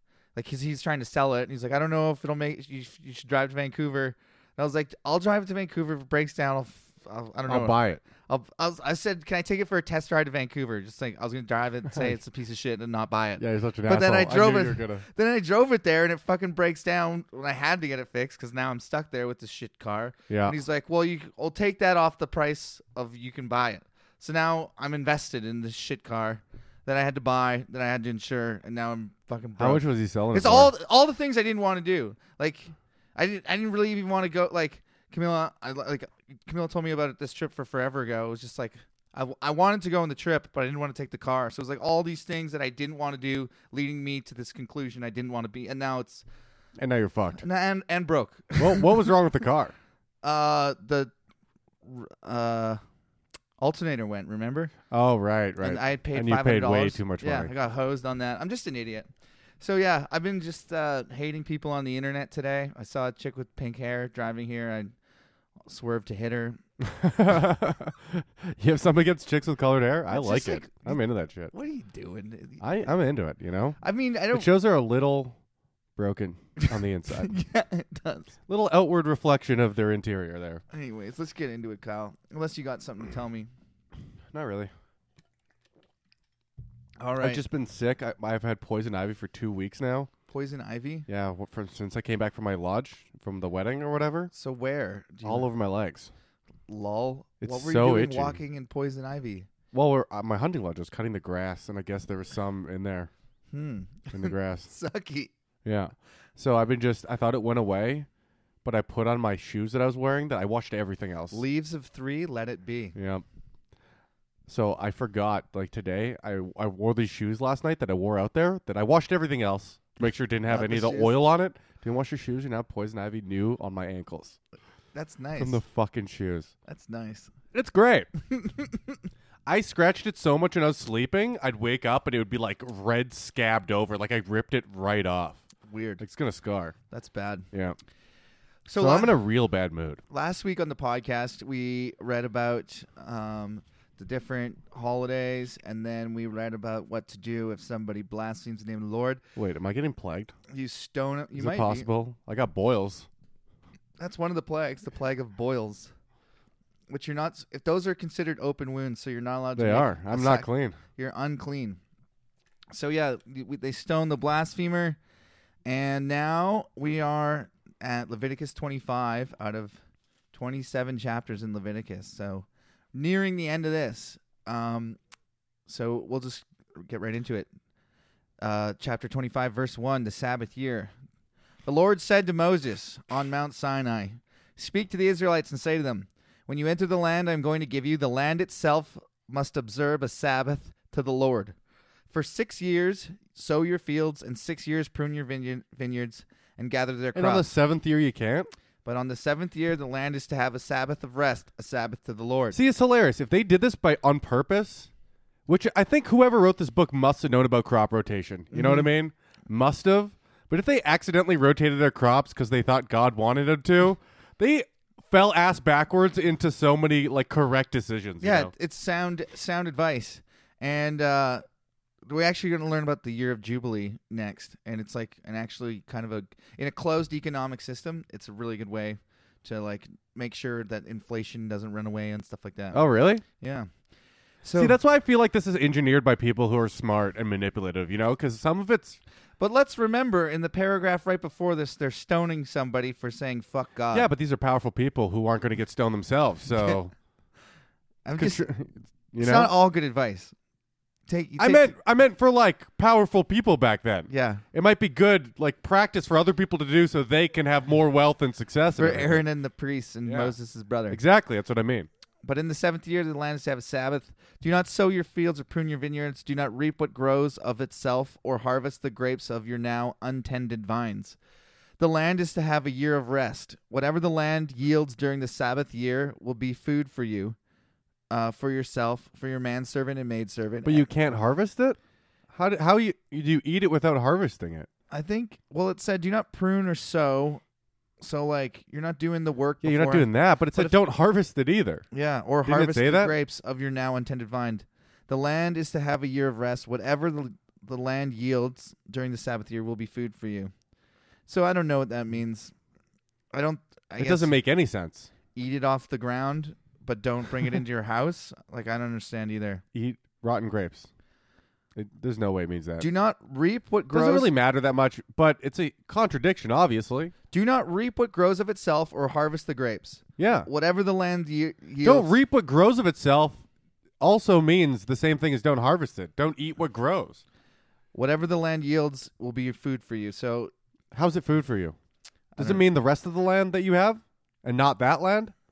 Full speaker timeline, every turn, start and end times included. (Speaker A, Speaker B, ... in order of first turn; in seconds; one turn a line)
Speaker A: 0.3-46.2
Speaker B: 7.5-8.0
Speaker B: 11.9-12.2
Speaker B: 13.4-15.1
Speaker B: 20.3-20.6
Speaker B: 29.6-30.7
Speaker B: 46.8-47.4
Speaker A: 47.4-48.9
Speaker B: 48.6-49.7
Speaker A: 50.2-51.1
Speaker A: 51.9-52.8
Speaker A: 53.6-54.7
Speaker B: 54.9-57.5
Speaker A: 55.6-59.1
Speaker A: 59.6-64.9
Speaker A: 65.7-66.6
Speaker B: 66.8-71.5
Speaker A: 70.1-72.6
Speaker B: 72.6-73.8
Speaker A: 73.8-74.5
Speaker B: 74.3-75.3
Speaker B: 76.0-77.3
Speaker A: 77.2-78.3
Speaker B: 78.5-80.6
Speaker A: 80.7-83.5
Speaker B: 84.3-84.7
Speaker A: 87.0-87.4
Speaker B: 87.2-90.1
Speaker A: 90.3-91.1
Speaker B: 91.1-94.3
Speaker A: 94.3-95.5
Speaker B: 95.2-96.1
Speaker A: 96.7-99.5
Speaker B: 97.4-98.4
Speaker B: 99.7-103.1
Speaker A: 103.5-105.3
Speaker B: 104.1-104.7
Speaker B: 105.6-108.1
Speaker B: 108.6-111.4
Speaker A: 111.3-113.0
Speaker B: 112.9-113.2
Speaker B: 114.5-124.4
Speaker A: 120.5-121.2
Speaker A: 124.9-125.6
Speaker B: 125.4-126.5
Speaker A: 126.7-127.3
Speaker B: 127.5-128.1
Speaker A: 128.3-128.8
Speaker B: 129.4-135.4
Speaker A: 135.7-136.0
Speaker B: 136.0-136.7
Speaker A: 136.9-137.4
Speaker B: 137.5-137.8
Speaker A: 138.7-139.2
Speaker B: 138.8-140.0
Speaker A: 140.1-149.2
Speaker B: 149.3-150.3
Speaker A: 150.5-151.9
Speaker B: 151.3-153.1
Speaker A: 154.0-155.9
Speaker A: 156.9-161.8
Speaker B: 159.6-160.8
Speaker A: 162.7-165.0
Speaker A: 165.6-169.8
Speaker A: 170.3-175.0
Speaker A: 175.7-177.5
Speaker A: 178.4-180.9
Speaker A: 181.7-191.5
Speaker A: 192.1-197.5
Speaker B: 197.1-198.5
Speaker A: 198.8-202.6
Speaker B: 202.5-204.9
Speaker B: 205.5-218.5
Speaker A: 208.5-208.9
Speaker A: 218.2-221.4
Speaker A: 222.1-233.7
Speaker B: 232.7-233.2
Speaker A: 234.4-234.8
Speaker B: 234.5-239.0
Speaker A: 239.4-244.1
Speaker B: 243.9-246.9
Speaker A: 248.0-248.4
Speaker B: 248.2-249.5
Speaker A: 249.2-250.3
Speaker A: 251.1-251.7
Speaker B: 251.4-259.2
Speaker A: 254.1-254.4
Speaker A: 258.8-261.0
Speaker B: 260.0-260.3
Speaker B: 260.9-261.9
Speaker A: 262.2-271.2
Speaker A: 271.8-277.4
Speaker A: 278.1-280.9
Speaker B: 280.6-281.8
Speaker B: 282.3-284.7
Speaker A: 284.9-287.4
Speaker A: 288.0-290.7
Speaker B: 289.6-291.9
Speaker A: 291.9-300.5
Speaker B: 292.4-293.1
Speaker A: 301.3-302.5
Speaker A: 303.3-304.3
Speaker B: 304.0-305.1
Speaker A: 305.3-309.6
Speaker B: 309.7-310.9
Speaker B: 311.7-312.9
Speaker A: 312.8-314.3
Speaker B: 313.9-317.1
Speaker A: 317.3-322.1
Speaker B: 320.2-320.5
Speaker B: 321.8-323.4
Speaker B: 324.0-327.2
Speaker A: 327.9-330.5
Speaker B: 330.9-331.8
Speaker A: 332.4-332.6
Speaker B: 332.4-335.3